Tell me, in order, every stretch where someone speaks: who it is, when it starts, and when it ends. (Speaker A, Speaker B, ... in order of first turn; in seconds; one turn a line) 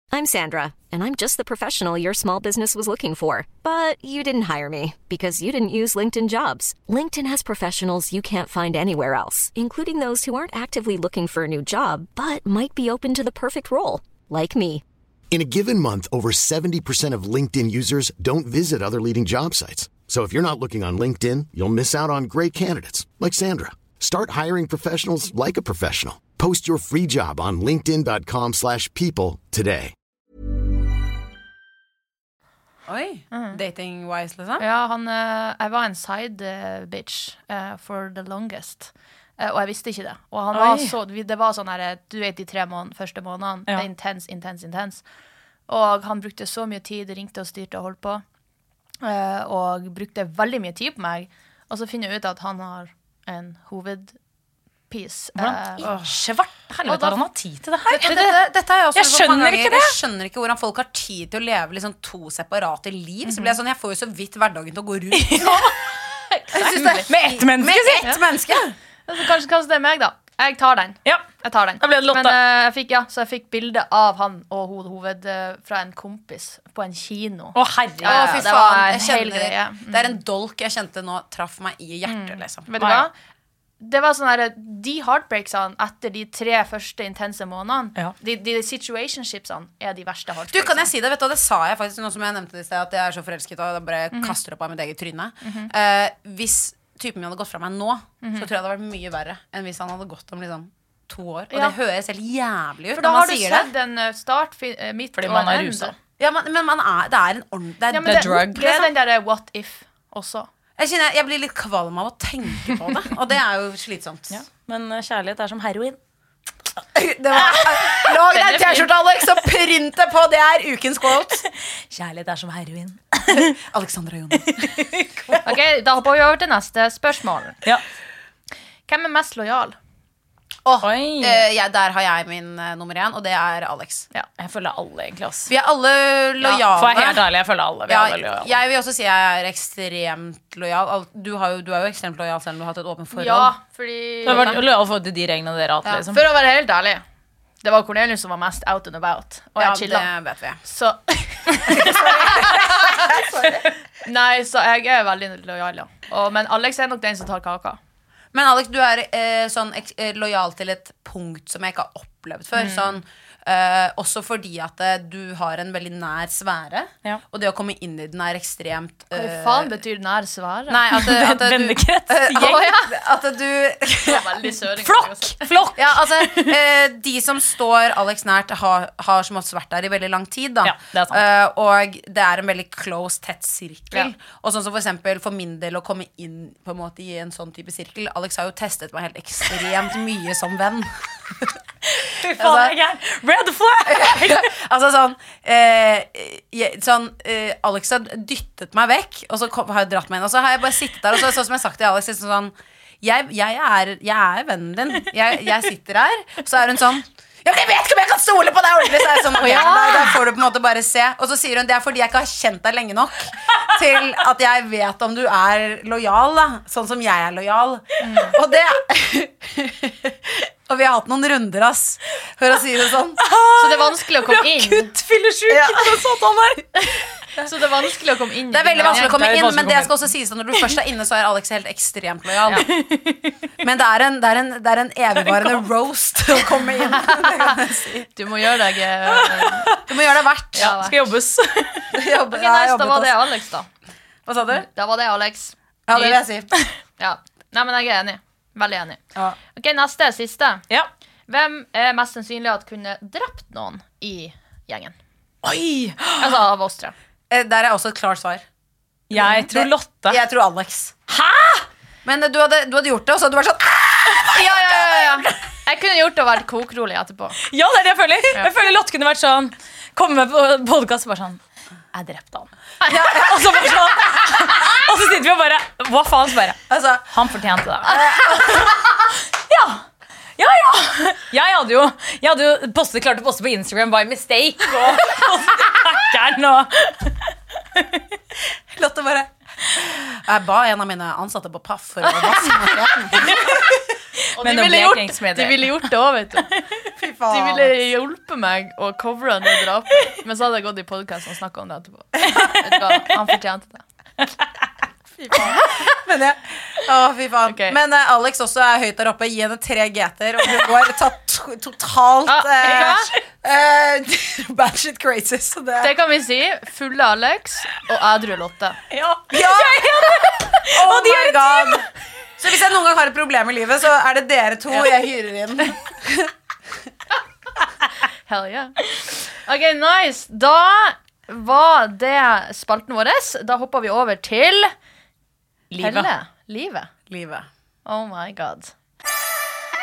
Speaker A: 0.1-14.8
Speaker B: 15.3-29.9
Speaker C: 32.9-34.6
Speaker D: 33.3-33.6
Speaker D: 34.6-45.0
Speaker E: 40.5-40.9
Speaker D: 45.7-48.2
Speaker D: 49.0-54.2
Speaker D: 54.9-55.8
Speaker E: 55.4-58.4
Speaker C: 55.8-56.1
Speaker D: 56.9-57.2
Speaker C: 57.9-65.7
Speaker E: 59.0-60.0
Speaker E: 65.2-65.7
Speaker D: 66.3-67.1
Speaker C: 66.5-68.8
Speaker E: 67.1-68.1
Speaker D: 69.1-80.2
Speaker E: 71.8-72.4
Speaker E: 77.5-78.4
Speaker C: 78.0-82.7
Speaker D: 82.1-83.1
Speaker E: 82.8-83.1
Speaker D: 83.8-90.9
Speaker C: 90.5-103.7
Speaker D: 94.1-94.4
Speaker D: 95.4-95.7
Speaker D: 98.2-98.5
Speaker D: 102.9-105.9
Speaker E: 105.2-106.0
Speaker C: 106.2-108.9
Speaker D: 107.9-110.5
Speaker E: 108.1-108.5
Speaker C: 110.8-114.4
Speaker E: 114.3-116.0
Speaker C: 117.0-121.5
Speaker D: 118.3-118.9
Speaker E: 121.9-123.5
Speaker C: 123.3-125.5
Speaker E: 124.5-125.4
Speaker D: 125.5-127.6
Speaker D: 128.9-129.8
Speaker C: 130.7-134.1
Speaker E: 130.8-131.4
Speaker E: 134.4-135.5
Speaker C: 135.5-137.2
Speaker E: 136.7-138.5
Speaker C: 137.9-143.6
Speaker D: 143.1-144.6
Speaker E: 144.2-146.2
Speaker C: 144.3-144.6
Speaker D: 146.1-147.0
Speaker D: 147.6-150.1
Speaker C: 149.6-150.6
Speaker D: 150.6-153.2
Speaker C: 151.7-153.7
Speaker D: 154.1-157.8
Speaker C: 158.3-169.8
Speaker D: 162.6-162.8
Speaker D: 169.2-170.9
Speaker C: 170.7-174.3
Speaker E: 170.9-172.7
Speaker D: 172.4-172.9
Speaker D: 174.0-175.5
Speaker E: 174.8-176.6
Speaker C: 175.8-191.6
Speaker E: 180.6-181.2
Speaker E: 191.8-194.5
Speaker C: 192.3-192.8
Speaker C: 193.8-223.2
Speaker D: 209.4-210.2
Speaker D: 218.0-218.4
Speaker E: 223.2-226.9
Speaker D: 223.6-224.9
Speaker C: 225.5-226.0
Speaker D: 227.4-229.2
Speaker C: 228.5-232.7
Speaker E: 228.8-230.0
Speaker E: 232.5-233.3
Speaker C: 233.6-238.1
Speaker D: 237.2-237.5
Speaker D: 238.2-239.7
Speaker C: 239.8-240.8
Speaker D: 240.6-241.0
Speaker E: 240.6-241.9
Speaker C: 241.9-243.2
Speaker D: 242.3-243.7
Speaker C: 244.3-244.7
Speaker D: 244.5-246.2
Speaker C: 245.9-246.5
Speaker D: 247.0-249.0
Speaker D: 249.6-250.6
Speaker D: 251.3-254.9
Speaker E: 255.4-256.4
Speaker D: 256.2-256.9
Speaker C: 257.3-258.4
Speaker E: 259.1-260.2
Speaker C: 259.1-261.0
Speaker E: 261.1-261.7
Speaker C: 262.1-265.2
Speaker D: 264.3-267.4
Speaker E: 267.4-271.4
Speaker E: 271.9-278.8
Speaker C: 272.9-274.8
Speaker C: 276.7-277.2
Speaker C: 277.9-278.9
Speaker E: 279.5-279.8
Speaker E: 280.4-288.0
Speaker C: 288.7-293.8
Speaker E: 293.3-293.6
Speaker D: 294.4-296.5
Speaker E: 294.4-295.9
Speaker C: 297.0-297.7
Speaker D: 297.3-303.8
Speaker E: 302.3-302.7
Speaker C: 305.2-316.0
Speaker D: 307.5-307.8
Speaker D: 312.3-313.1
Speaker E: 312.6-313.0
Speaker D: 315.8-318.8
Speaker E: 318.9-321.9
Speaker C: 319.3-321.8
Speaker C: 322.4-326.3
Speaker D: 328.3-328.8
Speaker D: 329.5-334.7
Speaker E: 335.7-336.1
Speaker D: 335.8-336.9
Speaker C: 337.1-337.5
Speaker D: 337.9-338.7